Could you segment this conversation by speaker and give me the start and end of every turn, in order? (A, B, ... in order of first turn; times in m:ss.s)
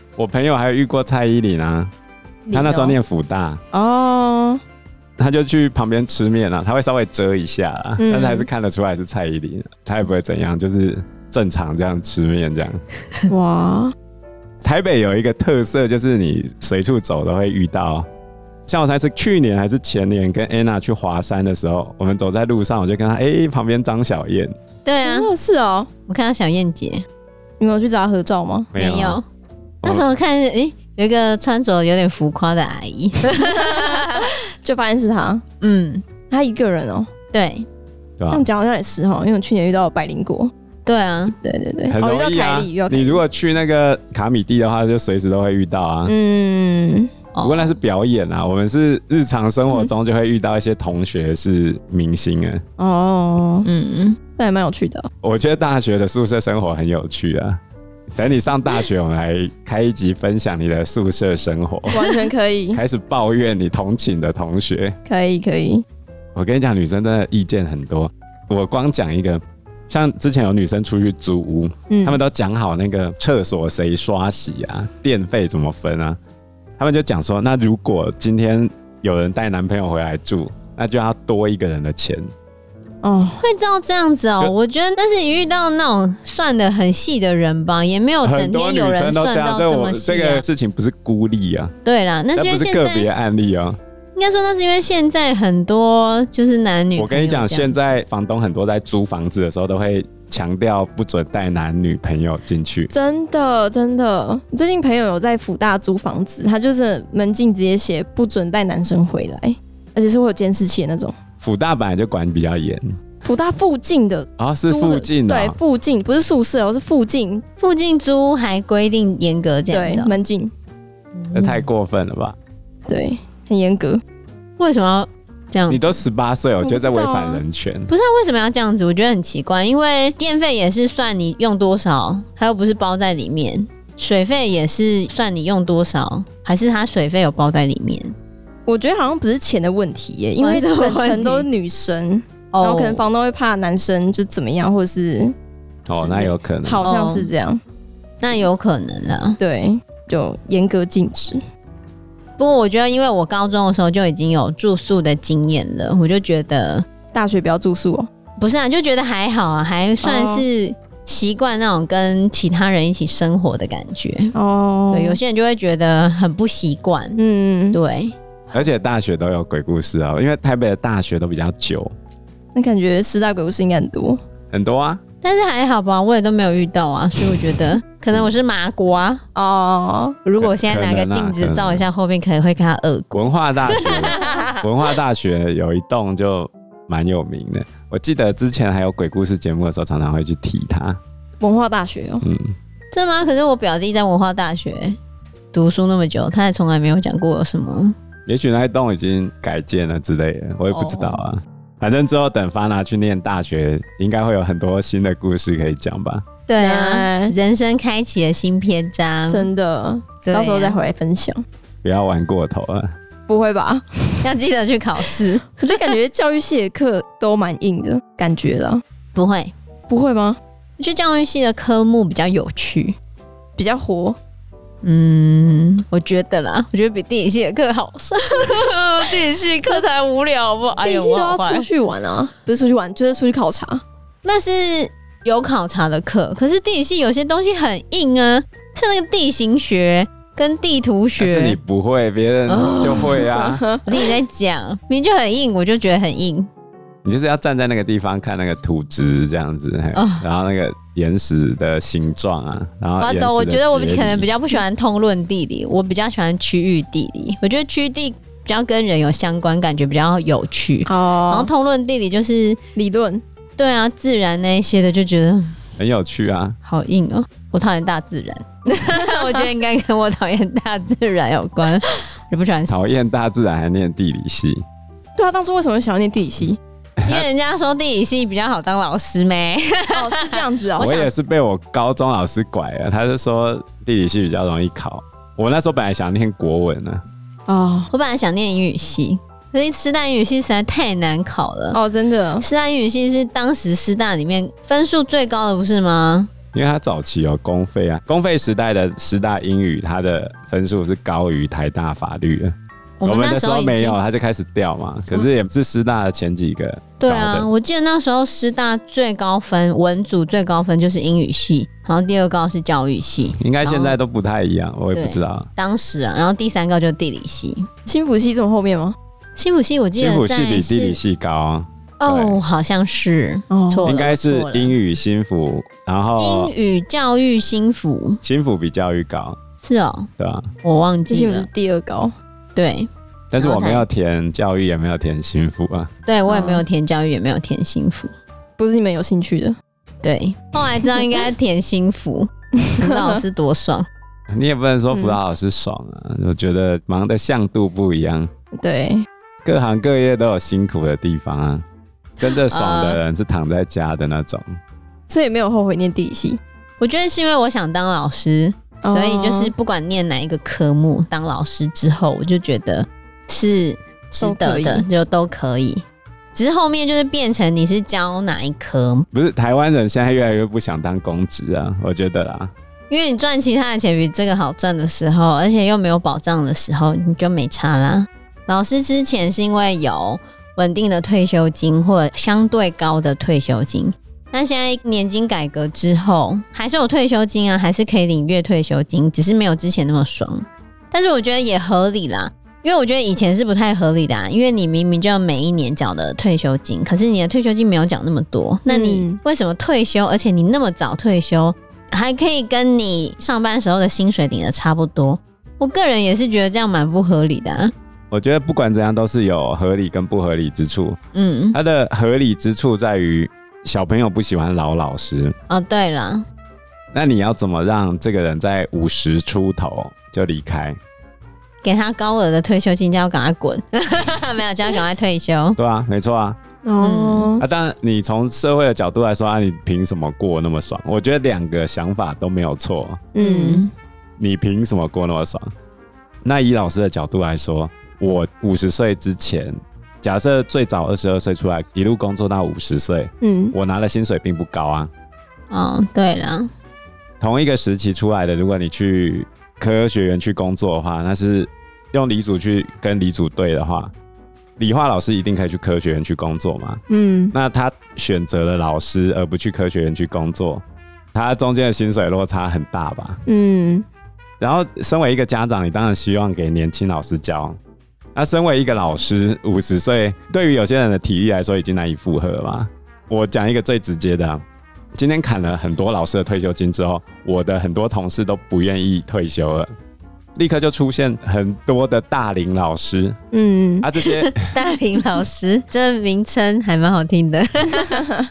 0:00.2-0:01.9 A
0:02.5-0:02.9 B
0:02.5-0:03.6 A
0:03.7-0:04.6 B
0:05.2-0:12.8 A
0:08.0-0:08.5 B
0:13.3-0:14.0 B
0:14.6-0:18.1 A
0:18.7-0:24.5 A
0:24.8-0:25.3 C
0:25.0-0:25.9 B
0:26.1-0:27.0 C
0:27.6-0:28.7 B
0:28.7-0:29.2 A
0:28.8-0:29.2 C
0:29.8-0:34.3 C
0:33.7-0:35.4 B
0:35.6-0:36.0 C
0:36.3-0:37.1 B
0:37.3-0:37.7 C
0:38.2-0:38.5 A
0:38.3-0:40.5 B
0:40.9-0:41.4 C
0:41.4-0:43.2 B
0:41.9-0:46.1 A
0:46.1-0:47.1 B
0:47.3-0:47.8 C
0:47.4-0:52.6 A
0:52.8-0:53.7 B
0:53.6-0:54.2 C
0:54.4-0:55.1 B
0:55.2-0:57.6 A
0:58.2-1:02.1 A
1:01.9-1:02.8 B
1:02.7-1:05.0 A
1:05.1-1:05.8 B
1:06.4-1:16.2 A
1:11.9-1:12.2 B
1:16.8-1:22.3 A
1:23.0-1:23.4 B
1:23.4-1:30.4 C
1:28.2-1:31.7 A
1:31.8-1:33.1 C
1:32.4-1:33.8 A
1:34.2-1:37.8 C
1:37.0-1:42.9 A
1:42.9-1:51.2 B
1:51.4-1:52.9 A
1:53.2-1:57.4 B
1:54.4-1:55.6 A
1:57.6-2:00.2 C
1:59.7-2:00.5 B
2:01.3-2:02.4 A
2:02.9-2:04.0 B
2:04.6-2:06.0 C
2:05.7-2:07.9 A
2:06.6-2:07.4 B
2:07.9-2:18.1 C
2:18.7-2:25.3 B
2:20.4-2:21.5 C
2:22.5-2:23.0 C
2:25.9-2:26.8 A
2:26.0-2:27.6 B
2:26.8-2:27.3 C
2:28.2-2:29.4 C
2:29.4-2:31.4 B
2:32.4-2:36.9 C
2:37.1-2:38.1 B
2:38.4-2:44.4 C
2:40.0-2:40.5 B
2:44.4-2:45.2 B
2:44.9-2:47.2 C
2:47.2-2:47.8 B
2:47.7-2:48.2 C
2:48.5-2:51.9 A
2:52.6-2:54.2 B
2:54.5-2:55.0 A
2:55.2-2:59.2 C
2:59.4-3:00.2 B
3:00.2-3:04.6 C
3:00.4-3:01.9 A
3:03.1-3:11.0 A
3:11.4-3:12.3 B
3:12.2-3:12.5 A
3:12.9-3:15.0 C
3:15.5-3:18.0 C
3:18.3-3:26.2 A
3:20.7-3:21.2 B
3:26.5-3:29.5 C
3:26.6-3:27.3 B
3:29.3-3:31.4 B
3:30.2-3:30.8 C
3:31.8-3:32.9 A
3:33.3-3:34.2 B
3:34.2-3:35.6 C
3:35.6-3:38.8 B
3:39.2-3:39.5 C
3:39.9-3:40.4 B
3:40.8-3:43.0 C
3:43.6-3:44.2 B
3:44.8-3:51.7 C
3:50.8-3:53.8 B
3:54.2-4:01.6 C
4:01.2-4:03.6 A
4:02.5-4:03.1 C
4:02.7-4:04.0 B
4:03.9-4:06.5 C
4:07.0-4:14.3 A
4:09.9-4:10.2 C
4:13.0-4:22.6 C
4:20.9-4:21.5 B
4:22.8-4:23.2 B
4:23.6-4:25.5 C
4:25.8-4:26.6 A
4:26.6-4:32.8 C
4:32.7-4:34.6 A
4:35.2-4:36.6 B
4:37.0-4:37.3 A
4:37.1-4:41.1 C
4:39.9-4:40.9 B
4:40.8-4:47.0 A
4:47.5-4:47.9 B
4:47.9-4:51.8 C
4:51.7-4:52.5 B
4:52.4-4:56.3 C
4:56.5-5:02.5 A
5:03.0-5:04.0 C
5:03.0-5:07.5 A
5:07.0-5:14.0 C
5:13.4-5:15.5 A
5:14.9-5:17.7 C
5:17.9-5:19.0 B
5:19.4-5:21.0 C
5:20.0-5:22.4 A
5:22.0-5:24.8 C
5:23.5-5:24.0 B
5:23.8-5:26.5 A
5:26.2-5:28.2 C
5:28.2-5:29.4 A
5:29.6-5:30.1 C
5:30.2-5:30.5 A
5:30.6-5:31.5 C
5:31.1-5:32.1 B
5:32.6-5:33.9 C
5:33.3-5:35.9 A
5:36.1-5:38.1 C
5:36.3-5:36.6 B
5:38.6-5:39.6 B
5:40.0-5:43.9 C
5:42.7-5:43.2 B
5:44.3-5:48.3 A
5:44.9-5:45.2 B
5:48.6-5:49.1 B
5:49.4-5:51.6 A
5:52.2-5:54.5 A
5:52.5-5:53.0 C
5:55.1-5:56.4 B
5:56.8-6:05.8 C
5:58.8-5:59.5 B
6:04.2-6:04.8 B
6:06.3-6:09.1 C
6:09.1-6:12.5 A
6:12.9-6:47.7 C
6:38.7-6:39.2 B
6:48.1-6:51.0 A
6:51.1-6:51.6 C
6:51.5-6:55.4 A
6:55.5-6:56.2 C
6:56.9-7:00.8 A
7:01.6-7:05.6 C
7:05.6-7:06.4 A
7:06.6-7:07.4 B
7:06.8-7:07.4 C
7:07.4-7:13.0 A
7:13.2-7:13.7 B
7:13.2-7:13.7 C
7:14.2-7:15.5 A
7:16.2-7:24.9 A
7:23.2-7:23.6 B
7:25.5-7:26.5 C
7:27.2-7:33.9 A
7:34.6-7:40.6 A
7:36.9-7:37.3 B
7:41.1-7:43.2 A
7:43.3-7:43.8 B
7:44.4-7:47.6 A
7:48.2-7:54.4 A
7:55.0-7:59.7 A
8:00.4-8:03.2 A
8:03.3-8:03.9 B
8:03.8-8:04.5 A
8:04.2-8:08.0 C